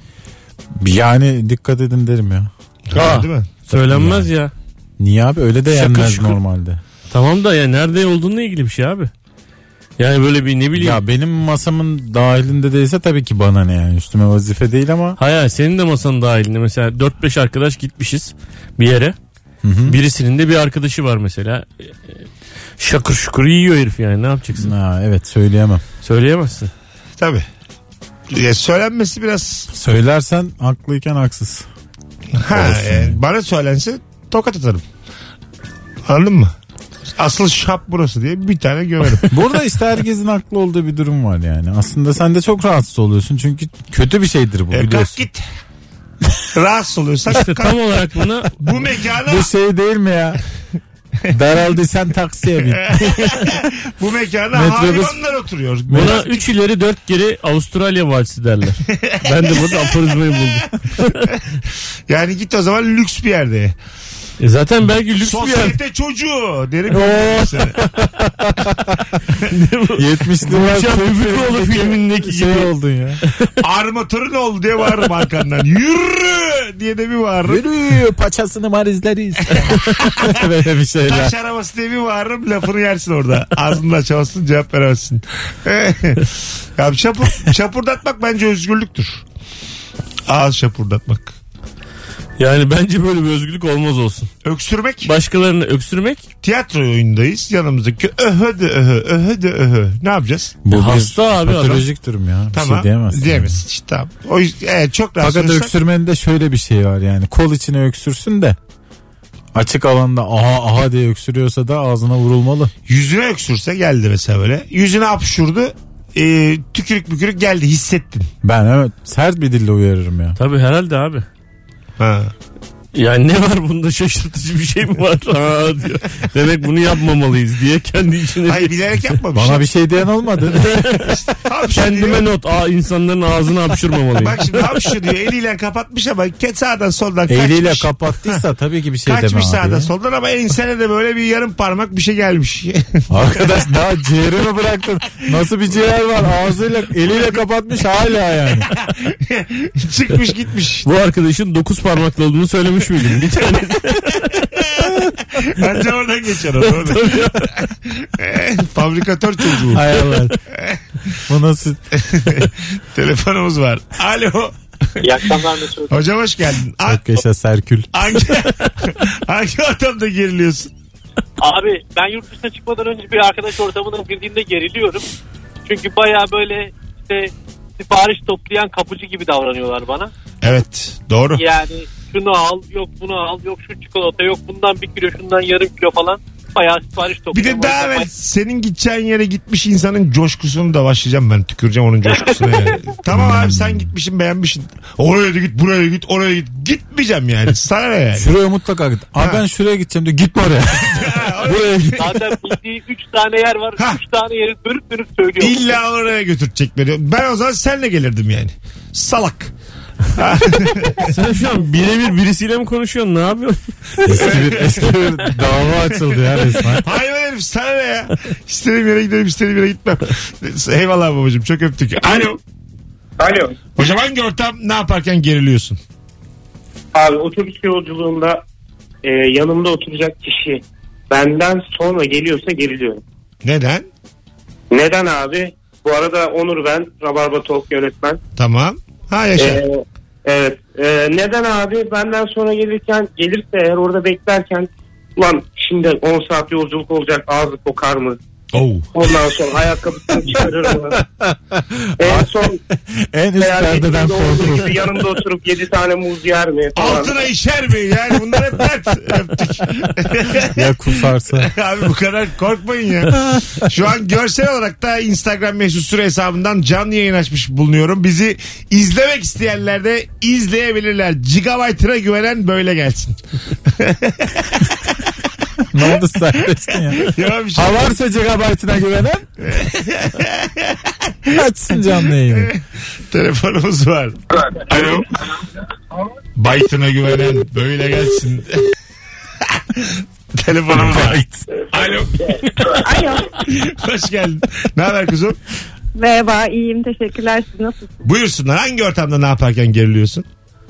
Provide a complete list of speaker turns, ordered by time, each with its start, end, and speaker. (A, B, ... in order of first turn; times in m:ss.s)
0:00.8-0:02.5 A
0:02.9-0:03.5 B
0:02.9-0:04.5 C
0:03.7-0:04.3 A
0:05.0-0:06.8 A
0:05.7-0:06.4 C
0:07.1-0:09.1 C
0:10.0-0:11.0 C
0:10.7-0:15.2 A
0:15.2-0:19.2 C
0:19.6-0:20.0 A
0:19.9-0:22.2 C
0:22.8-0:24.7 C
0:24.6-0:25.8 A
0:26.0-0:26.7 C
0:27.2-0:27.4 B
0:28.3-0:29.7 B
0:29.7-0:31.6 A
0:32.4-0:34.8 B
0:32.5-0:33.2 A
0:36.0-0:36.5 B
0:37.2-0:39.3 B
0:39.3-0:45.2 A
0:44.7-0:45.4 B
0:46.5-0:47.8 B
0:47.3-0:48.5 C
0:48.6-0:49.5 B
0:49.2-0:50.4 A
0:51.3-0:53.4 A
0:53.0-0:56.4 B
0:54.5-0:55.2 A
0:55.9-0:56.2 A
0:55.9-1:01.3 C
0:59.0-1:00.4 B
1:02.1-1:03.7 B
1:04.4-1:05.8 C
1:05.2-1:07.8 B
1:06.9-1:07.7 C
1:08.4-1:09.1 A
1:09.4-1:12.7 C
1:10.0-1:13.2 A
1:13.6-1:17.6 B
1:17.4-1:21.3 A
1:19.6-1:20.1 B
1:21.1-1:29.2 B
1:30.3-1:31.4 B
1:32.4-1:34.3 C
1:34.4-1:35.1 B
1:35.0-1:36.2 C
1:36.4-1:40.6 B
1:40.6-1:43.6 A
1:40.7-1:41.8 C
1:42.5-1:45.7 B
1:45.2-1:48.6 A
1:49.5-1:52.7 A
1:52.9-1:58.3 B
1:58.4-2:00.4 A
2:00.4-2:01.2 C
2:02.0-2:02.3 B
2:02.9-2:08.7 C
2:08.4-2:09.6 B
2:09.3-2:11.2 A
2:10.7-2:11.1 C
2:11.2-2:12.2 B
2:11.7-2:14.6 C
2:14.2-2:18.4 B
2:17.3-2:19.9 A
2:19.0-2:23.6 B
2:23.1-2:28.7 A
2:28.8-2:30.9 B
2:30.8-2:34.9 C
2:35.4-2:39.8 B
2:36.6-2:37.5 C
2:39.7-2:40.4 A
2:39.9-2:40.3 C
2:40.5-2:40.8 B
2:41.3-2:41.8 A
2:42.0-2:47.0 B
2:45.3-2:45.8 D
2:46.9-2:48.0 A
2:47.9-2:50.7 B
2:51.4-2:55.0 D
2:55.6-3:00.1 D
3:00.4-3:01.4 B
3:01.3-3:08.1 D
3:07.3-3:18.3 B
3:13.1-3:13.9 A
3:18.1-3:22.0 A
3:20.8-3:22.4 B
3:22.0-3:25.7 D
3:25.4-3:29.5 B
3:30.1-3:31.2 B
3:31.0-3:34.8 C
3:34.0-3:36.8 A
3:34.2-3:34.8 B
3:36.0-3:42.4 B
3:43.2-3:43.6 E
3:43.8-3:45.8 B
3:46.9-3:48.4 E
3:49.0-3:53.0 E
3:53.4-3:53.9 B
3:54.7-3:58.2 E
3:58.4-3:59.6 B
3:59.4-4:08.2 E
4:08.5-4:08.9 B
4:08.9-4:11.0 E
4:11.3-4:12.3 A
4:12.0-4:12.6 E
4:13.1-4:15.0 A
4:13.4-4:17.2 E
4:16.7-4:20.7 B
4:20.5-4:21.5 A
4:21.4-4:34.9 B
4:35.7-4:39.3 A
4:36.8-4:38.0 B
4:39.4-4:41.4 B
4:41.3-4:42.5 A
4:42.3-4:45.1 B
4:46.4-4:48.6 B
4:49.6-4:51.2 B
4:50.7-4:51.4 A
4:51.7-4:52.7 B
4:52.8-4:53.2 F
4:53.4-4:55.4 B
4:55.9-4:58.0 F
4:58.0-5:00.2 B